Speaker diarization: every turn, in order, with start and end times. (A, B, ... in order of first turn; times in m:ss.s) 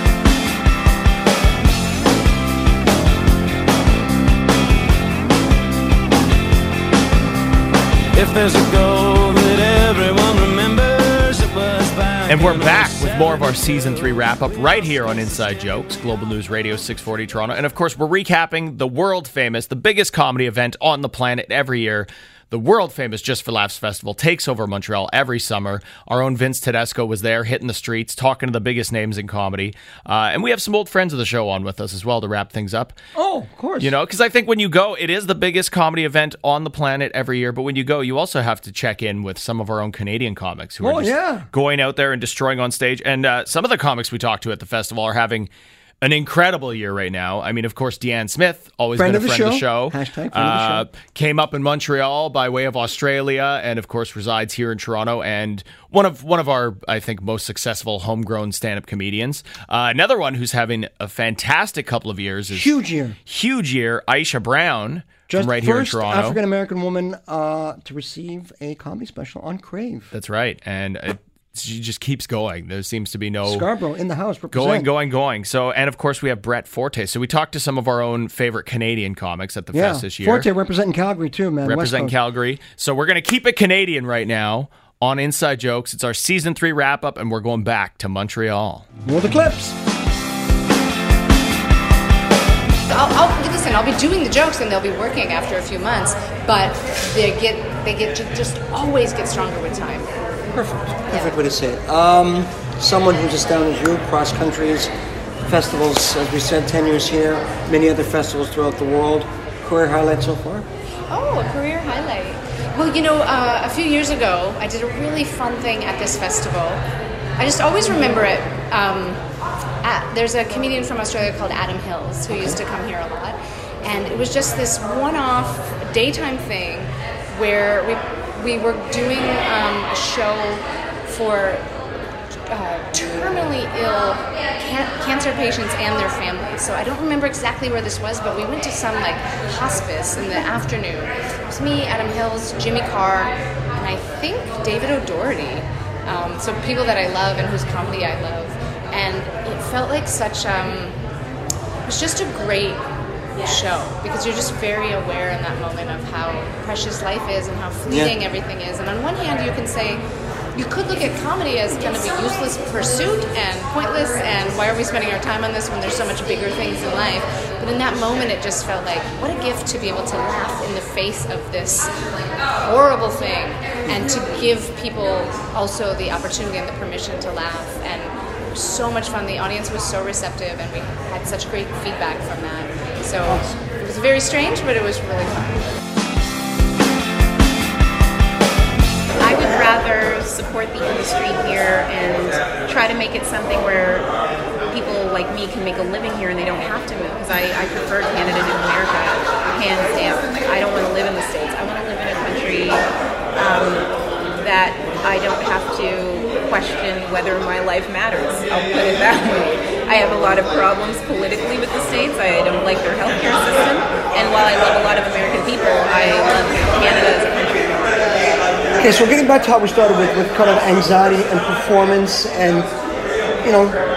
0:08.2-0:10.6 A
0:12.3-0:33.0 B
0:33.1-0:33.9 C
0:33.8-0:45.5 B
0:40.8-0:41.5 C
0:46.0-1:02.7 B
0:49.0-0:50.9 C
1:02.5-1:03.2 C
1:03.3-1:06.4 B
1:05.3-1:10.1 C
1:10.1-1:13.7 B
1:13.5-1:14.9 C
1:14.5-1:20.5 B
1:19.7-1:22.1 C
1:21.6-1:28.9 B
1:29.0-1:29.8 C
1:32.9-1:40.1 D
1:40.5-1:44.9 C
1:45.4-1:50.7 C
1:51.1-1:56.8 D
1:57.4-1:59.2 D
1:59.8-2:11.7 D
2:02.3-2:02.6 C
2:12.5-2:31.0 D
2:31.9-2:32.8 D
2:33.4-2:51.9 D
2:37.9-2:38.2 C
2:52.6-3:05.7 D
3:09.2-3:14.1 E
3:14.7-3:22.8 E
3:23.4-3:37.8 E
3:38.8-3:42.7 C
3:43.4-3:43.8 C